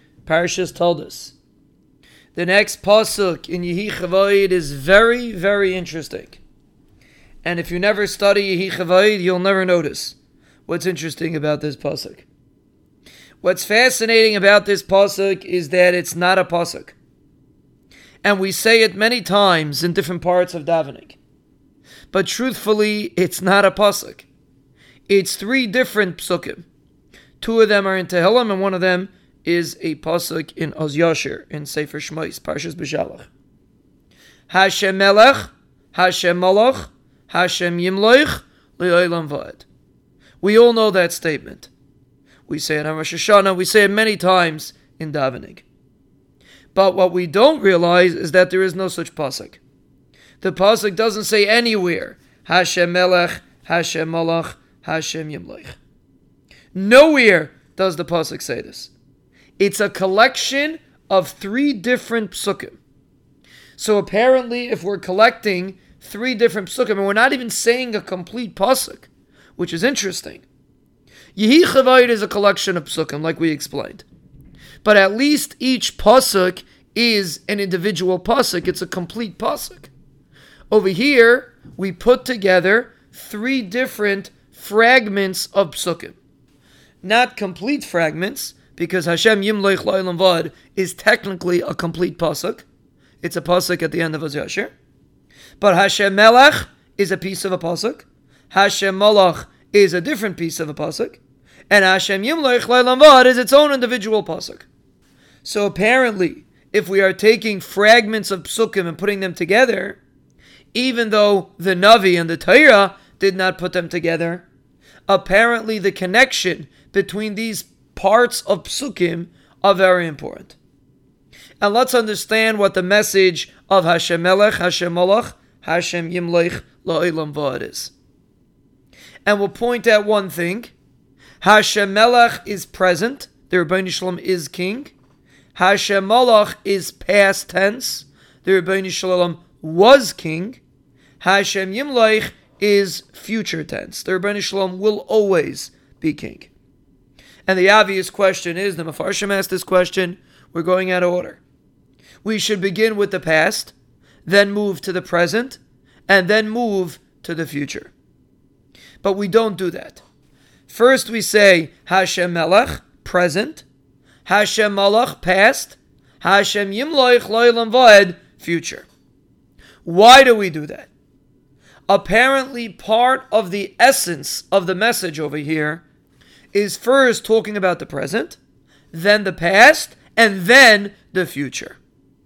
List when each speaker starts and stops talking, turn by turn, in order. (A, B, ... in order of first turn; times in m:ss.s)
0:00.2-0:01.4 A
0:02.3-0:06.4 A
0:07.4-0:10.2 A
0:10.7-0:12.3 A
0:13.4-0:17.0 A
0:18.2-0:21.2 A
0:22.1-0:24.3 A
0:25.1-0:26.6 A
0:27.4-0:33.3 A
0:34.5-0:39.6 A
0:40.4-0:41.7 A
0:42.5-0:45.6 A
0:46.7-0:49.6 A
0:50.4-0:55.8 A
0:56.7-0:58.9 A
0:59.6-1:02.8 A
1:03.8-1:10.4 A
1:11.4-1:14.0 A
1:14.8-1:19.9 A
1:20.7-1:26.2 A
1:27.0-1:32.6 A
1:33.2-1:34.7 A
1:35.6-1:44.7 A
1:45.4-1:50.0 A
1:50.7-1:54.5 A
1:55.1-2:00.6 A
2:01.6-2:07.9 A
2:09.2-2:10.7 A
2:11.4-2:14.9 A
2:15.6-2:20.6 A
2:21.2-2:26.5 A
2:27.5-2:31.4 A
2:32.2-2:33.7 A
2:34.2-2:37.9 A
2:39.0-2:40.0 A
2:40.7-2:43.6 A
2:44.2-2:48.9 A
2:49.8-2:50.9 A
2:51.9-2:55.8 A
2:56.5-2:58.4 A
2:58.9-3:01.8 A